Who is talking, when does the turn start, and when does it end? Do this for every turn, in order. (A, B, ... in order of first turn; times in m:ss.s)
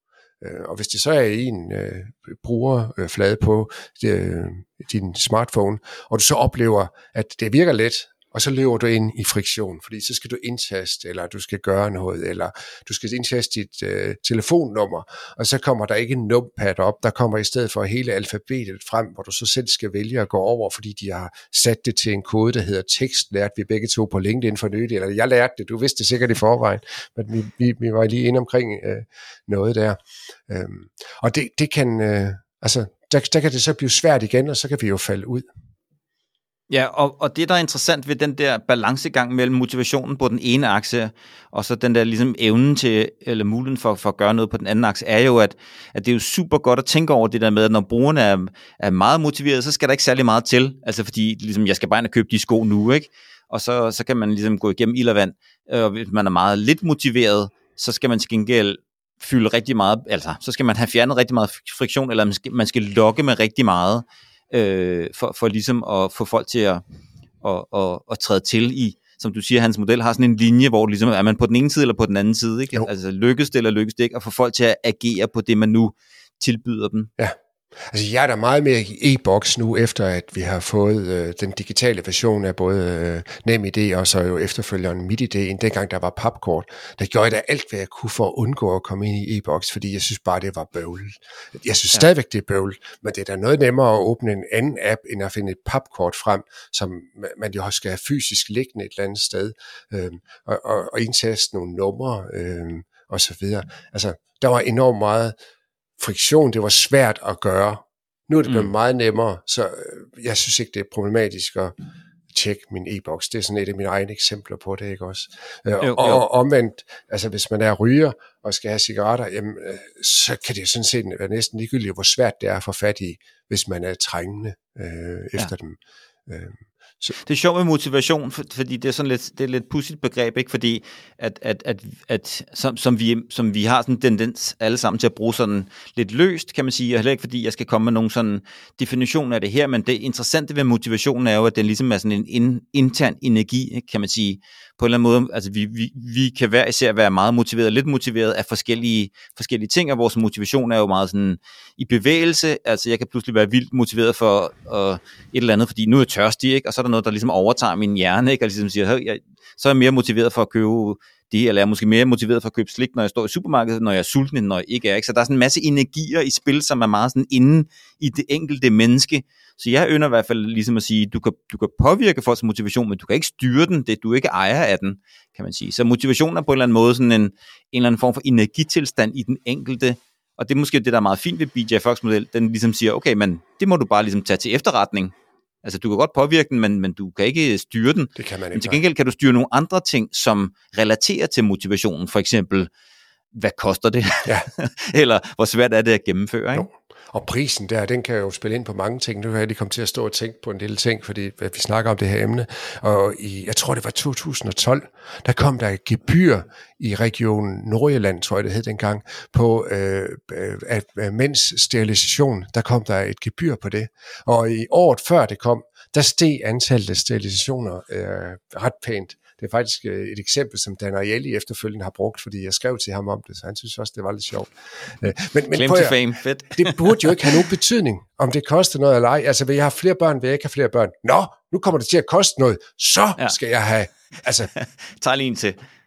0:00.4-0:35.5 A
0:36.7-1:06.8 B
1:07.4-1:17.1 B
1:17.9-1:45.3 A
1:46.0-1:51.7 A
1:52.3-2:07.1 A
1:55.8-1:56.2 B
2:07.2-3:12.7 B
3:08.2-3:08.8 A
3:13.3-3:16.7 B
3:16.5-3:46.0 A
3:45.5-3:47.4 B
3:46.5-3:54.5 A
3:54.5-3:55.6 B